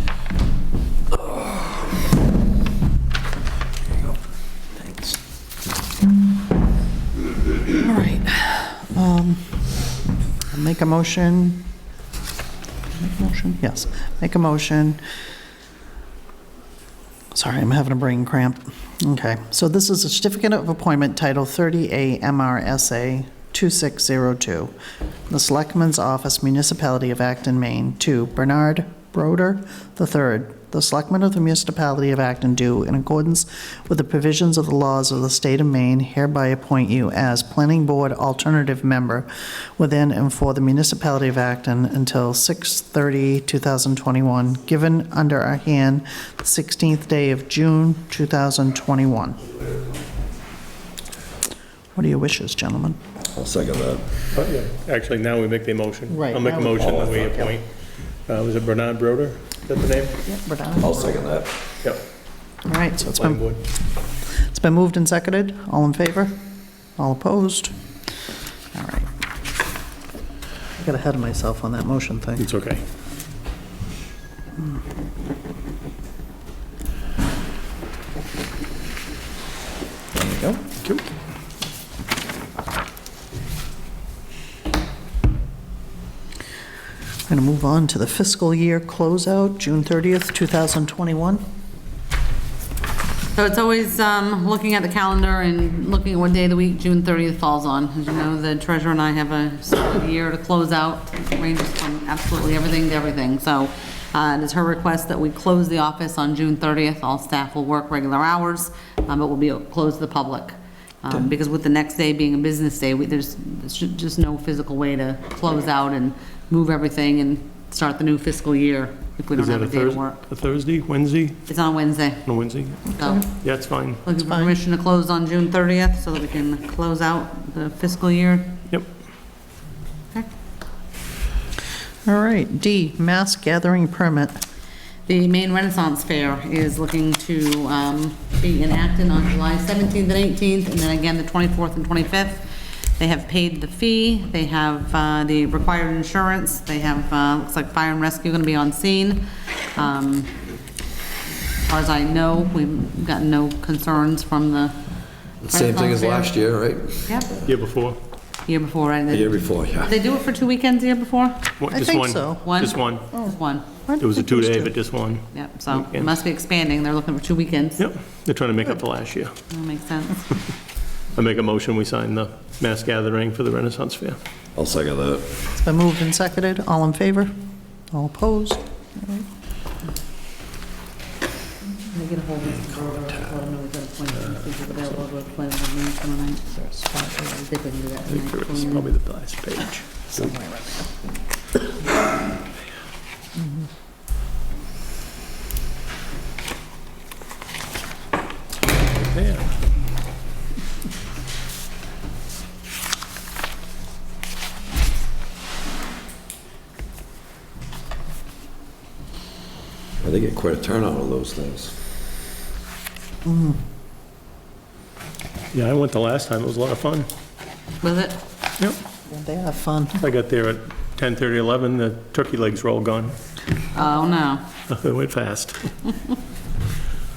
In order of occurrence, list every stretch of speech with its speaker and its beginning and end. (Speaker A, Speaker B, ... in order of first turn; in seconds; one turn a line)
Speaker A: 4.8-5.2
Speaker A: 7.7-9.6
Speaker A: 10.5-11.7
Speaker A: 12.9-15.0
Speaker A: 17.3-24.7
Speaker A: 25.3-49.4
Speaker A: 51.9-53.0
Speaker B: 53.3-54.1
Speaker C: 54.3-57.7
Speaker A: 56.1-57.5
Speaker C: 58.3-60.2
Speaker A: 60.2-61.2
Speaker B: 60.8-61.5
Speaker A: 62.6-63.6
Speaker C: 63.1-63.6
Speaker A: 64.4-66.4
Speaker A: 67.0-67.7
Speaker A: 68.7-69.1
Speaker A: 70.8-72.5
Speaker C: 72.4-72.8
Speaker A: 80.1-80.6
Speaker A: 87.3-91.4
Speaker D: 93.3-120.2
Speaker C: 119.3-121.4
Speaker D: 121.5-122.2
Speaker C: 122.2-124.0
Speaker D: 122.9-123.3
Speaker D: 124.0-128.6
Speaker A: 124.2-124.5
Speaker A: 132.1-134.4
Speaker D: 135.1-150.3
Speaker D: 151.6-154.8
Speaker B: 155.4-157.1
Speaker D: 155.5-156.4
Speaker D: 157.0-157.3
Speaker C: 157.4-158.0
Speaker D: 158.4-161.5
Speaker B: 159.1-159.9
Speaker C: 161.6-163.0
Speaker A: 161.7-162.6
Speaker D: 162.4-163.7
Speaker A: 163.9-164.7
Speaker C: 164.0-166.1
Speaker D: 165.3-167.8
Speaker C: 167.8-169.3
Speaker D: 169.5-170.3
Speaker C: 171.1-174.2
Speaker B: 174.6-175.3
Speaker A: 175.5-177.3
Speaker A: 177.9-179.2
Speaker D: 181.7-186.5
Speaker A: 186.5-187.4
Speaker D: 187.4-188.9
Speaker C: 188.1-189.8
Speaker A: 190.1-190.9
Speaker C: 199.0-199.5
Speaker B: 210.0-211.7
Speaker A: 213.2-213.6
Speaker C: 215.5-217.1
Speaker D: 217.8-218.2
Speaker A: 219.1-220.0
Speaker C: 220.0-223.2
Speaker D: 223.7-224.5
Speaker C: 224.7-225.7